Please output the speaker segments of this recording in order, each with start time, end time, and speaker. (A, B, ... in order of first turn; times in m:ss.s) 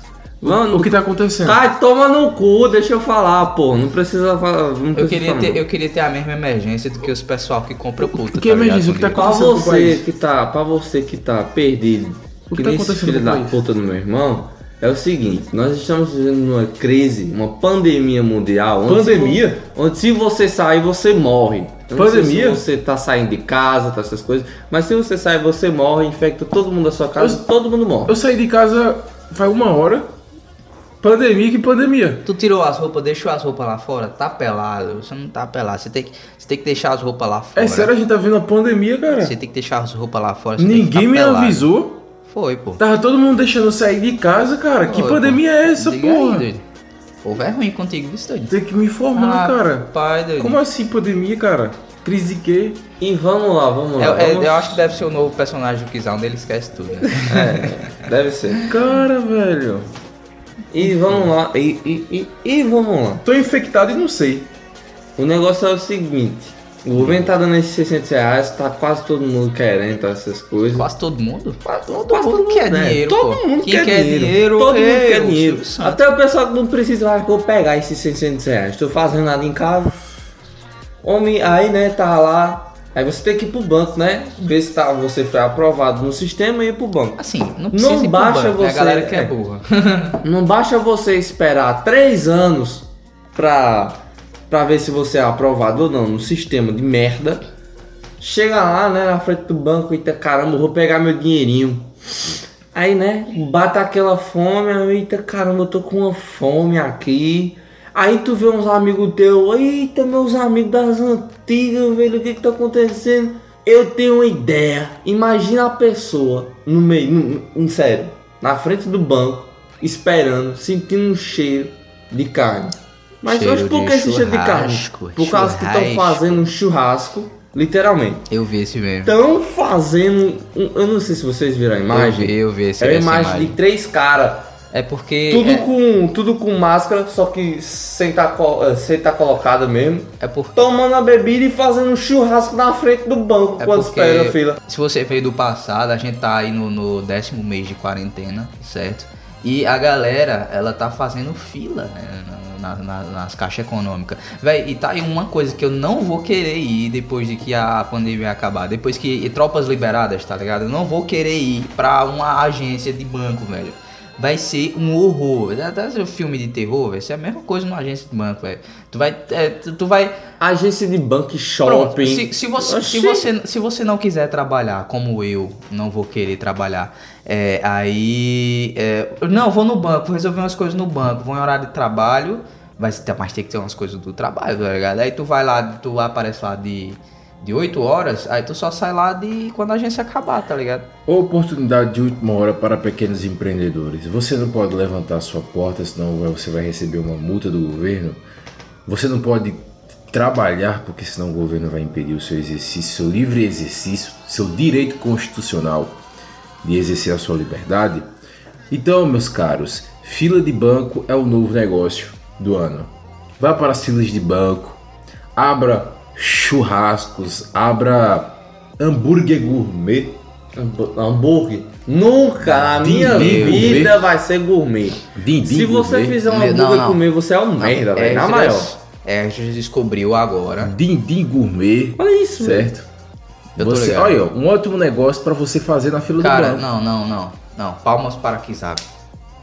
0:00.4-0:05.6 A
0:00.4-0:01.6 B
0:04.9-0:09.2 C
0:08.0-0:10.0 B
0:09.1-0:28.2 A
0:12.5-0:13.6 B
0:18.8-0:19.6 B
0:21.9-0:22.6 B
0:28.1-0:30.1 B
0:31.0-0:32.2 B
0:32.2-0:37.9 C
0:37.6-0:39.3 B
0:39.2-0:41.7 C
0:40.6-0:42.0 B
0:42.2-0:42.8 C
0:42.8-0:46.4 B
0:44.9-0:46.6 C
0:47.2-0:48.6 C
0:48.5-0:52.8 B
0:49.1-0:50.6 C
0:53.0-0:54.8 A
0:54.0-0:58.0 C
0:57.2-0:58.7 A
0:58.6-0:59.9 B
1:00.7-1:03.2 A
1:03.2-1:04.5 B
1:05.2-1:10.9 A
1:07.0-1:07.3 B
1:10.7-1:16.0 C
1:11.6-1:20.0 A
1:21.0-1:27.2 A
1:27.2-1:30.2 C
1:27.7-1:29.3 A
1:30.2-1:37.4 A
1:38.2-1:41.9 A
1:42.7-2:08.2 A
2:03.2-2:06.4 C
2:08.3-2:09.1 C
2:09.0-2:14.5 A
2:11.9-2:13.6 C
2:14.7-2:15.7 C
2:15.3-2:24.6 A
2:20.2-2:20.7 C
2:23.6-2:50.2 C
2:50.4-2:53.3 A
2:51.6-3:10.9 C
3:11.1-3:18.2 B
3:18.8-3:26.0 B
3:26.6-3:28.1 B
3:28.7-3:34.8 B
3:35.4-3:40.2 B
3:40.6-3:48.7 A
3:42.5-3:43.9 C
3:42.8-3:44.0 B
3:45.1-3:46.2 B
3:46.2-3:47.0 C
3:47.6-3:50.8 C
3:50.6-3:52.8 B
3:52.0-3:52.7 A
3:53.6-3:54.2 C
3:53.6-3:56.6 B
3:56.2-3:58.9 C